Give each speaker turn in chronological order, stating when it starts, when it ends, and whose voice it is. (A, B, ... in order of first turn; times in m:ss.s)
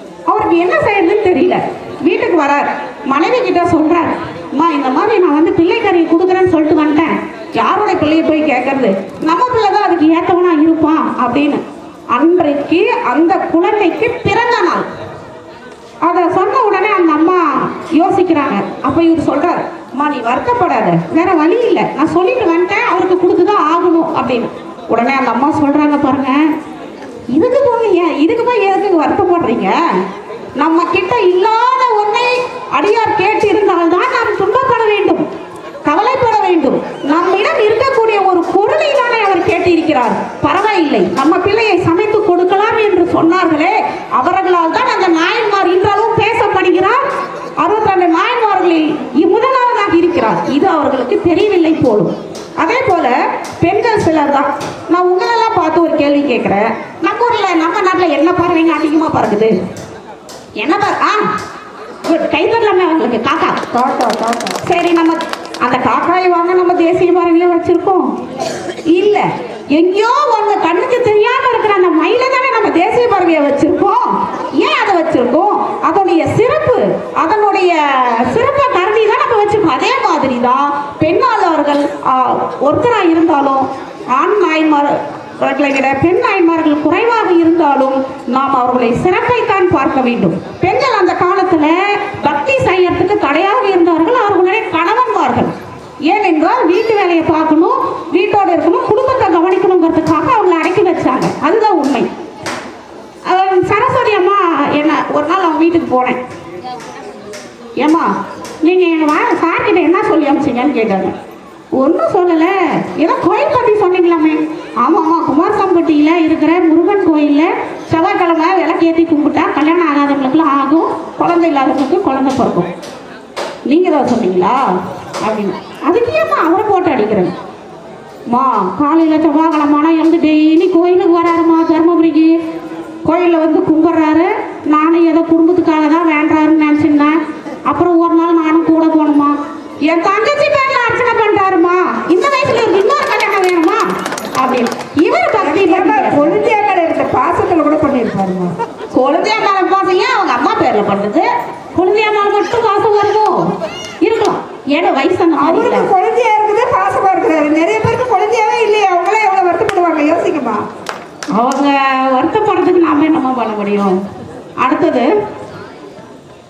0:00.3-0:14.9 A
0:16.0-0:26.5 A
0:27.3-0:29.8 A
0:30.6-0:35.3 A
0:35.8-0:47.0 A
0:47.6-0:59.5 A
1:00.6-1:01.3 A
1:02.0-1:03.6 A
1:03.7-1:04.6 B
1:04.6-1:08.1 A
1:08.9-1:35.5 A
1:36.1-1:42.1 A
1:43.2-1:46.2 A
1:47.8-1:51.2 A
1:51.8-2:02.7 A
2:03.7-2:04.6 A
2:05.2-2:07.4 A
2:08.3-2:12.4 A
2:13.0-2:17.2 A
2:17.7-2:26.4 A
2:25.4-2:28.5 B
2:28.9-2:33.5 A
2:34.0-2:35.9 A
2:35.4-2:40.6 B
2:41.3-2:44.0 A
2:44.6-2:45.1 A